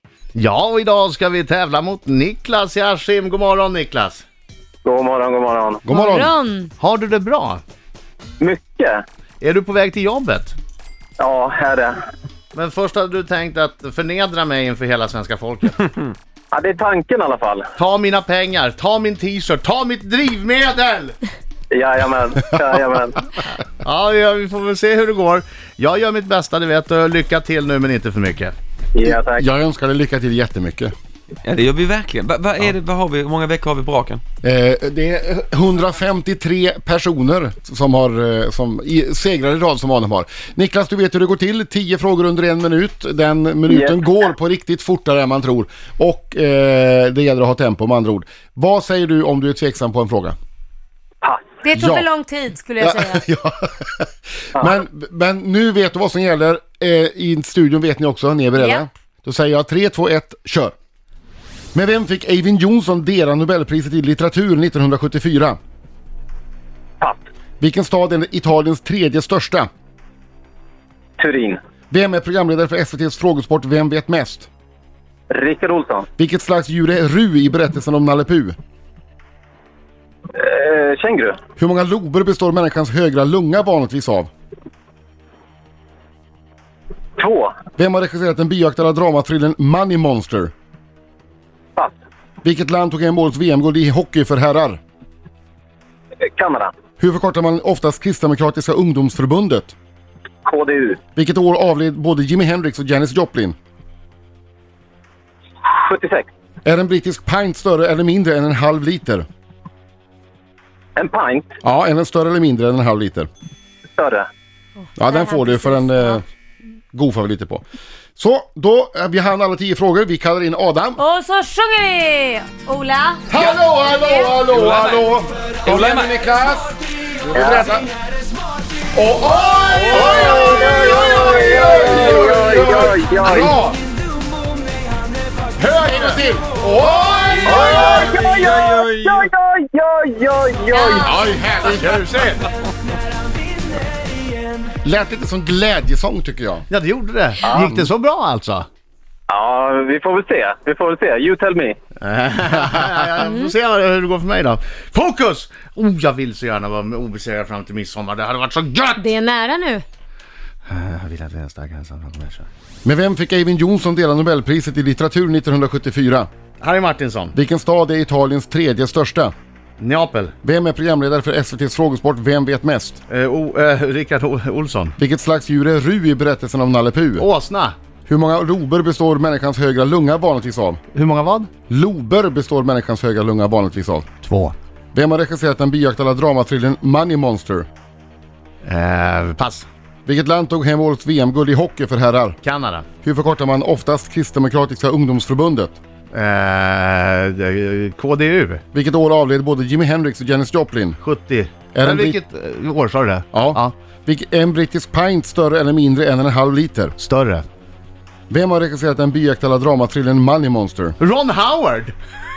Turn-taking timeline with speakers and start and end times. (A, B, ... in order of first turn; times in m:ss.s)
0:00.3-0:04.2 A
0:04.8-0:05.8 B
0:05.8-0:06.3 C
0:05.9-0:06.7 D
0:06.8-0:07.6 A
0:08.4-0:09.0 B
0:09.4-0:10.6 A
0:11.2-0:12.0 B
0:12.5-0:15.9 A
0:16.5-0:17.6 B
0:17.8-0:21.2 A
0:21.7-0:23.2 B
0:23.6-0:28.5 A
0:28.9-0:29.4 B
0:29.0-0:30.9 C
0:31.4-0:34.2 E
0:34.4-0:50.3 C
0:43.7-0:44.0 B
0:51.2-0:51.6 B
0:51.6-0:53.2 D
0:51.7-0:52.0 C
0:52.8-1:00.7 C
1:01.7-1:05.6 C
1:07.6-1:09.7 C
1:11.2-1:11.6 B
1:11.9-1:14.5 C
1:15.3-1:16.1 B
1:16.2-1:18.6 C
1:20.3-1:21.4 B
1:21.6-1:24.3 C
1:27.2-1:27.6 B
1:27.8-1:30.5 C
1:32.4-1:34.8 C
1:36.4-1:36.7 B
1:37.0-1:39.7 C
1:40.4-1:41.0 B
1:41.2-1:43.6 C
1:45.7-1:46.3 B
1:46.6-1:49.3 C
1:51.0-1:51.5 B
1:51.6-1:53.3 C
1:54.0-1:54.2 B
1:55.0-1:56.2 C
1:55.1-1:56.2 D
1:56.9-1:57.6 C
1:58.2-2:01.0 C
2:01.0-2:03.2 D
2:03.3-2:07.9 C
2:03.3-2:03.7 E
2:04.4-2:06.2 E
2:07.3-2:07.7 B
2:08.9-2:13.8 C
2:09.8-2:13.6 B
2:09.9-2:10.2 E
2:15.6-2:18.2 C
2:17.4-2:19.3 E
2:17.4-2:21.1 B
2:20.7-2:21.0 D
2:21.0-2:22.0 C
2:21.6-2:22.5 A
2:24.8-2:26.7 C
2:26.7-2:28.7 A
2:27.4-2:27.7 B
2:27.6-2:27.9 C
2:29.3-2:31.8 B
2:32.0-2:39.1 A
2:39.0-2:39.8 D
2:40.7-2:42.5 A
2:42.8-2:46.3 C
2:46.6-2:47.3 A
2:47.3-2:49.3 C
2:49.8-2:50.3 A
2:50.4-2:53.0 C
2:53.1-2:54.9 A
2:55.0-2:57.2 C
2:57.2-2:57.8 A
2:58.0-3:00.8 C
3:00.9-3:01.5 A
3:01.7-3:04.1 C
3:04.2-3:04.5 A
3:04.9-3:07.7 C
3:08.6-3:09.7 A
3:10.0-3:12.4 C
3:12.4-3:12.8 A
3:13.0-3:15.8 C
3:16.1-3:18.6 A
3:18.7-3:21.0 C
3:21.0-3:23.7 A
3:21.7-3:22.2 C
3:23.3-3:26.9 C
3:27.0-3:27.4 A
3:28.3-3:31.0 C
3:31.0-3:32.0 A